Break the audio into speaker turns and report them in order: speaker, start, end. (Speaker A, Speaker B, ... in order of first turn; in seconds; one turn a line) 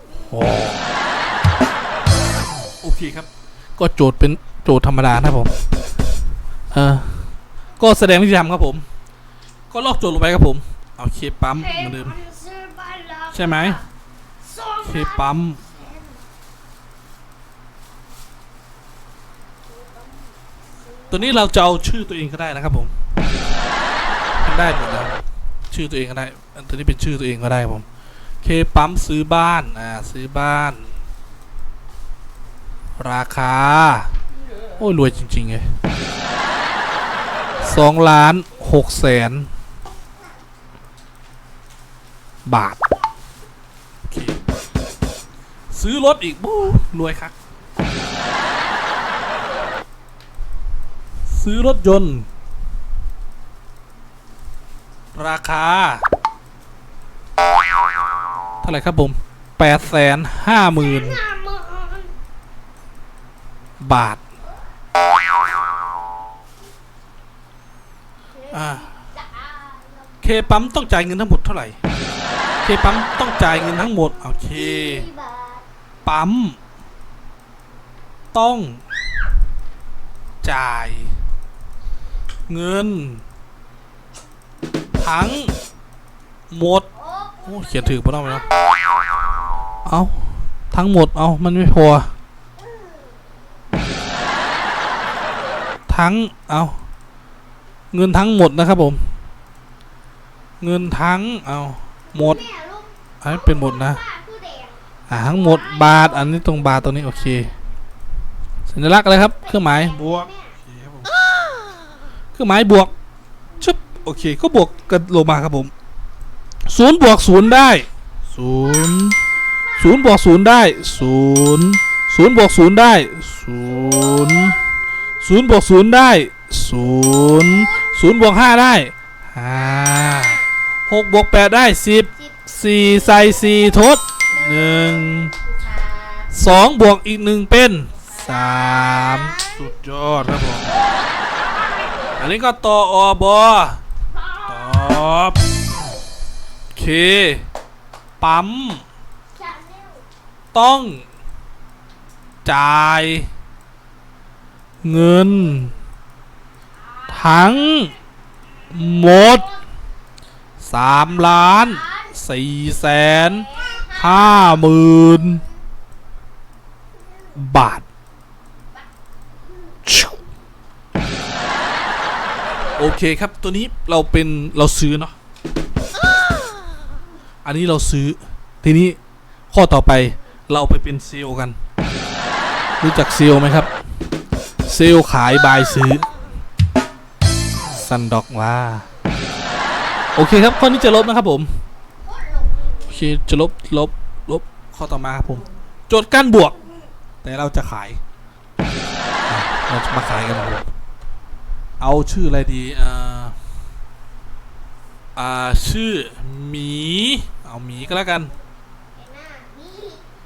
Speaker A: 0.3-0.9
Speaker A: 2.8-5.5
Speaker A: 6.7-8.8
Speaker A: 9.7-12.2
Speaker B: 11.5-13.8
Speaker A: 13.3-13.8
Speaker B: 14.4-16.2
Speaker A: 14.8-15.6
Speaker B: 19.8-20.1
Speaker B: 20.8-21.4
Speaker A: 21.1-22.9
Speaker A: 24.4-27.9
Speaker A: 28.4-30.9
Speaker A: 33.0-34.1
Speaker C: 34.4-34.8
Speaker A: 34.8-35.7
Speaker A: 37.6-39.5
Speaker A: 42.5-42.8
Speaker A: 44.1-44.4
Speaker A: 45.7-47.4
Speaker A: 51.3-52.3
Speaker A: 55.1-56.0
Speaker A: 58.6-61.2
Speaker B: 60.7-62.1
Speaker A: 63.8-64.2
Speaker B: 68.3-70.5
Speaker A: 68.5-68.9
Speaker A: 70.2-71.8
Speaker A: 72.6-75.1
Speaker B: 74.5-75.7
Speaker A: 76.0-76.6
Speaker A: 78.3-78.8
Speaker A: 80.4-81.2
Speaker A: 82.5-83.2
Speaker A: 85.0-85.5
Speaker A: 86.5-86.9
Speaker B: 86.9-88.6
Speaker A: 87.5-88.5
Speaker A: 89.8-92.1
Speaker B: 92.6-93.2
Speaker B: 94.4-95.9
Speaker A: 95.9-96.8
Speaker A: 97.9-99.1
Speaker A: 100.6-102.4
Speaker B: 102.1-107.5
Speaker A: 103.2-104.0
Speaker A: 105.1-107.5
Speaker A: 108.7-111.1
Speaker B: 109.3-110.6
Speaker A: 112.3-112.9
Speaker A: 113.6-115.7
Speaker A: 116.7-119.2
Speaker A: 119.8-124.6
Speaker B: 123.7-124.6
Speaker A: 125.2-135.3
Speaker B: 127.0-128.2
Speaker B: 129.6-130.5
Speaker B: 132.2-133.5
Speaker B: 134.3-134.8
Speaker C: 134.4-136.3
Speaker A: 136.3-140.7
Speaker C: 137.9-138.9
Speaker B: 138.3-139.7
Speaker C: 140.6-142.2
Speaker A: 142.2-143.8
Speaker C: 144.1-145.0
Speaker A: 144.5-145.4
Speaker A: 146.7-147.5
Speaker A: 148.2-148.8
Speaker B: 149.3-150.1
Speaker A: 150.5-151.0
Speaker A: 152.4-153.3
Speaker A: 154.8-155.7
Speaker B: 157.1-157.4
Speaker A: 157.1-157.9
Speaker A: 158.7-159.5
Speaker B: 158.9-159.6
Speaker A: 160.6-165.4
Speaker B: 161.1-162.2
Speaker B: 163.1-165.6
Speaker A: 167.4-167.8
Speaker A: 169.9-170.2
Speaker A: 172.8-175.2
Speaker A: 177.4-179.0
Speaker A: 179.5-181.6
Speaker A: 182.8-183.7
Speaker A: 184.7-186.1
Speaker A: 187.7-188.9
Speaker A: 190.2-191.5
Speaker B: 192.0-193.1
Speaker A: 192.9-196.6
Speaker A: 197.2-198.0
Speaker A: 199.3-200.7
Speaker A: 201.8-203.3
Speaker A: 205.2-208.3
Speaker B: 208.9-210.1